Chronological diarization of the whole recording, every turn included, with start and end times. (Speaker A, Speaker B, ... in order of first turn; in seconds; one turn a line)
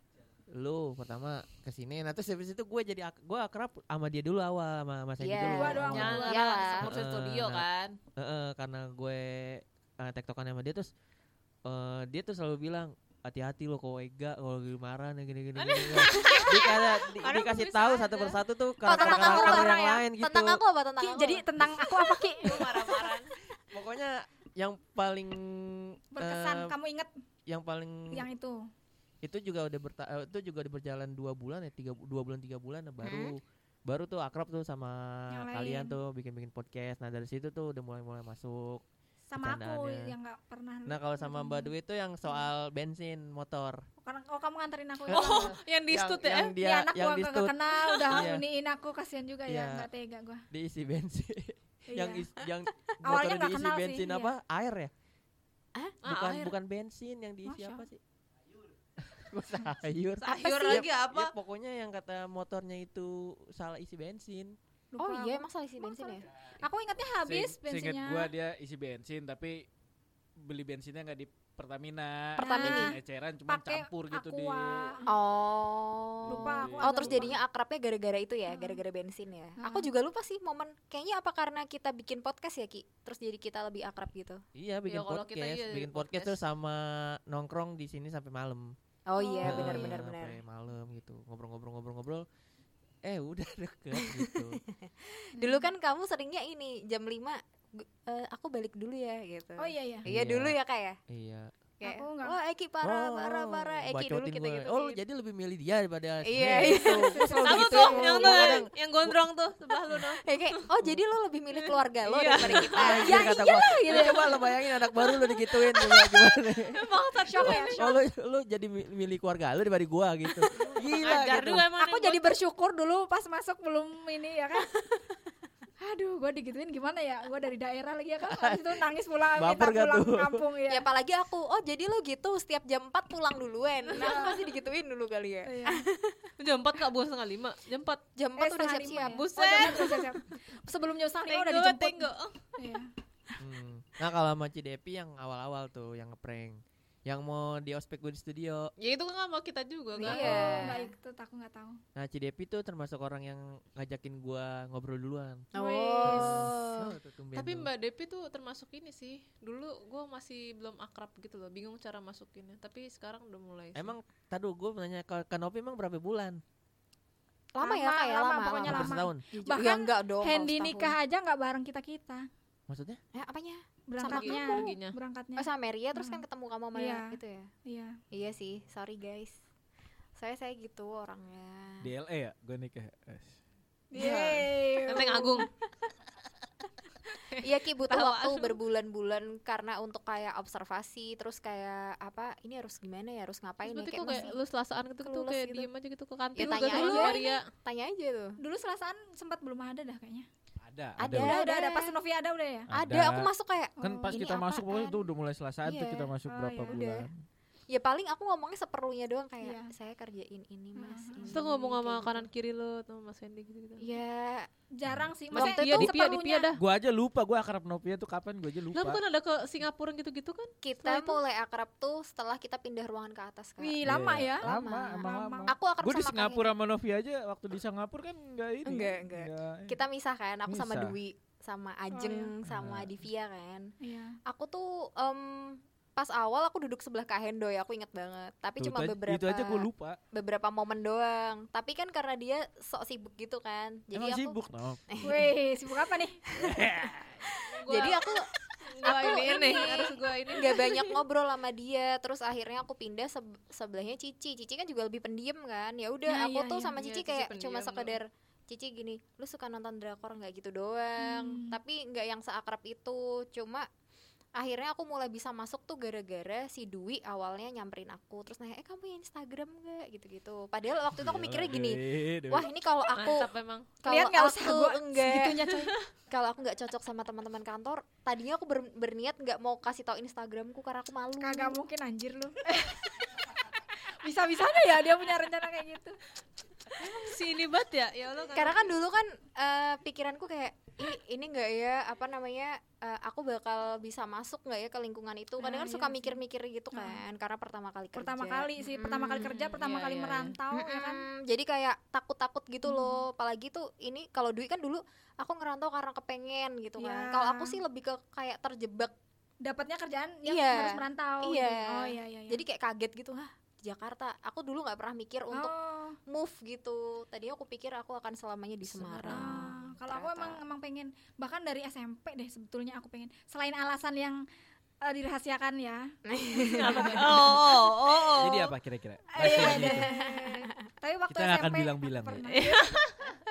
Speaker A: 0.5-7.6
Speaker B: 5.2-6.9
Speaker C: 5.5-6.5
Speaker D: 5.9-8.0
Speaker A: 8.2-10.9
Speaker A: 11.7-20.6
Speaker D: 15.6-18.4
Speaker B: 16.1-16.5
Speaker B: 18.8-23.1
Speaker C: 18.9-20.0
Speaker C: 21.0-22.7
Speaker D: 22.4-23.3
Speaker A: 23.7-26.7
Speaker C: 26.1-27.1
Speaker A: 27.5-28.3
Speaker C: 28.1-28.6
Speaker A: 29.2-38.8
Speaker B: 33.0-33.4
Speaker C: 35.3-36.0
Speaker C: 39.3-41.7
Speaker A: 39.4-40.1
Speaker A: 40.9-43.8
Speaker C: 44.0-45.5
Speaker A: 45.1-47.5
Speaker D: 45.1-46.5
Speaker C: 46.6-50.4
Speaker A: 48.0-48.4
Speaker A: 49.5-49.9
Speaker A: 50.5-54.9
Speaker C: 51.9-52.3
Speaker C: 53.0-54.3
Speaker D: 56.0-56.5
Speaker A: 56.0-58.0
Speaker C: 57.5-57.8
Speaker A: 59.0-64.6
Speaker D: 60.2-61.3
Speaker B: 60.3-60.9
Speaker C: 64.9-68.3
Speaker B: 65.0-66.2
Speaker E: 67.2-69.6
Speaker E: 70.4-74.9
Speaker C: 72.4-75.1
Speaker B: 72.4-72.9
Speaker B: 75.1-84.4
Speaker E: 76.3-77.3
Speaker C: 76.3-77.4
Speaker C: 78.5-78.8
Speaker C: 79.6-79.9
Speaker A: 84.5-88.7
Speaker D: 84.9-86.4
Speaker B: 89.1-90.4
Speaker C: 89.2-90.0
Speaker A: 89.4-92.2
Speaker A: 93.0-94.6
Speaker B: 94.0-101.0
Speaker C: 95.4-95.7
Speaker C: 99.6-100.0
Speaker A: 100.0-100.5
Speaker A: 101.1-101.5
Speaker B: 101.8-105.0
Speaker C: 101.8-102.4
Speaker A: 102.8-109.2
Speaker B: 106.2-107.2
Speaker C: 106.5-108.1
Speaker D: 107.3-110.6
Speaker B: 108.0-108.6
Speaker B: 110.2-114.4
Speaker D: 111.5-113.1
Speaker A: 112.4-116.8
Speaker C: 112.8-114.4
Speaker B: 115.0-116.1
Speaker D: 116.7-118.0
Speaker C: 117.3-117.8
Speaker A: 117.3-121.6
Speaker D: 120.6-122.3
Speaker C: 121.8-124.7
Speaker C: 125.8-130.8
Speaker A: 128.2-128.8
Speaker A: 129.4-130.4
Speaker B: 130.7-136.3
Speaker C: 133.9-134.4
Speaker C: 135.4-135.8
Speaker D: 136.4-138.0
Speaker B: 138.2-140.1
Speaker C: 138.4-142.9
Speaker D: 139.0-140.0
Speaker D: 141.3-142.5
Speaker A: 143.4-148.7
Speaker D: 148.8-150.7
Speaker B: 150.0-150.9
Speaker C: 150.0-151.8
Speaker A: 150.2-150.7
Speaker A: 151.9-155.5
Speaker C: 155.5-156.5
Speaker B: 155.5-156.9
Speaker A: 156.0-157.7
Speaker D: 157.3-163.9
Speaker A: 163.7-166.4
Speaker B: 167.5-170.9
Speaker C: 167.6-172.3
Speaker A: 168.6-169.2
Speaker A: 172.7-173.0
Speaker B: 173.1-174.7
Speaker C: 173.9-176.2
Speaker D: 174.0-174.9
Speaker B: 175.4-177.5
Speaker C: 176.7-177.9
Speaker B: 178.1-179.4
Speaker B: 180.2-181.9
Speaker E: 181.8-183.4
Speaker C: 183.9-185.5
Speaker B: 184.0-184.4
Speaker D: 184.9-185.5
Speaker D: 187.2-188.6
Speaker B: 187.4-194.3
Speaker D: 193.6-197.4
Speaker B: 195.0-195.7
Speaker B: 196.3-198.4
Speaker C: 196.4-197.2
Speaker C: 198.4-200.3
Speaker E: 200.6-201.4
Speaker B: 201.0-201.9
Speaker C: 201.1-202.7
Speaker E: 202.7-207.2
Speaker B: 202.7-205.1
Speaker C: 203.8-204.2
Speaker B: 205.6-206.1
Speaker C: 206.3-206.8
Speaker B: 206.7-207.1
Speaker B: 207.7-212.3
Speaker C: 209.4-209.7
Speaker C: 210.8-211.4
Speaker D: 211.2-214.0
Speaker B: 213.8-214.5
Speaker C: 214.7-216.5
Speaker D: 215.3-216.6
Speaker B: 215.3-215.8
Speaker E: 215.6-215.9
Speaker E: 216.5-219.0
Speaker D: 218.7-220.5
Speaker B: 220.6-223.8
Speaker C: 220.8-221.2
Speaker C: 223.6-225.5
Speaker E: 223.8-229.8
Speaker B: 224.4-226.4
Speaker B: 228.6-233.7
Speaker E: 230.5-231.0
Speaker C: 231.9-232.3
Speaker E: 232.4-232.9
Speaker C: 233.8-234.2
Speaker B: 234.2-244.3
Speaker E: 238.6-240.0
Speaker E: 243.9-244.8
Speaker B: 244.9-245.3
Speaker C: 245.0-246.2
Speaker B: 246.3-246.6
Speaker E: 246.3-247.2
Speaker B: 247.3-263.7
Speaker D: 247.4-251.0
Speaker C: 256.1-256.7
Speaker D: 256.8-258.0
Speaker C: 261.0-261.6
Speaker B: 264.4-275.5
Speaker E: 270.9-272.5
Speaker D: 272.9-273.7
Speaker C: 273.8-275.8
Speaker B: 276.1-281.6
Speaker C: 281.2-283.1
Speaker C: 283.8-286.0
Speaker D: 286.8-288.7
Speaker B: 288.3-299.3
Speaker C: 295.4-296.2
Speaker C: 296.7-297.0
Speaker C: 297.9-301.1
Speaker D: 299.2-300.4
Speaker B: 300.5-308.9
Speaker C: 302.7-303.0
Speaker C: 306.8-307.6
Speaker C: 309.4-312.4
Speaker B: 310.2-315.5
Speaker C: 315.3-316.0
Speaker B: 316.1-320.4
Speaker D: 318.6-319.5
Speaker C: 319.1-324.2
Speaker C: 324.8-325.8
Speaker B: 326.1-327.6
Speaker D: 326.3-328.5
Speaker E: 328.2-329.9
Speaker C: 329.1-332.7
Speaker B: 329.2-330.5
Speaker E: 331.1-332.3
Speaker D: 332.3-333.2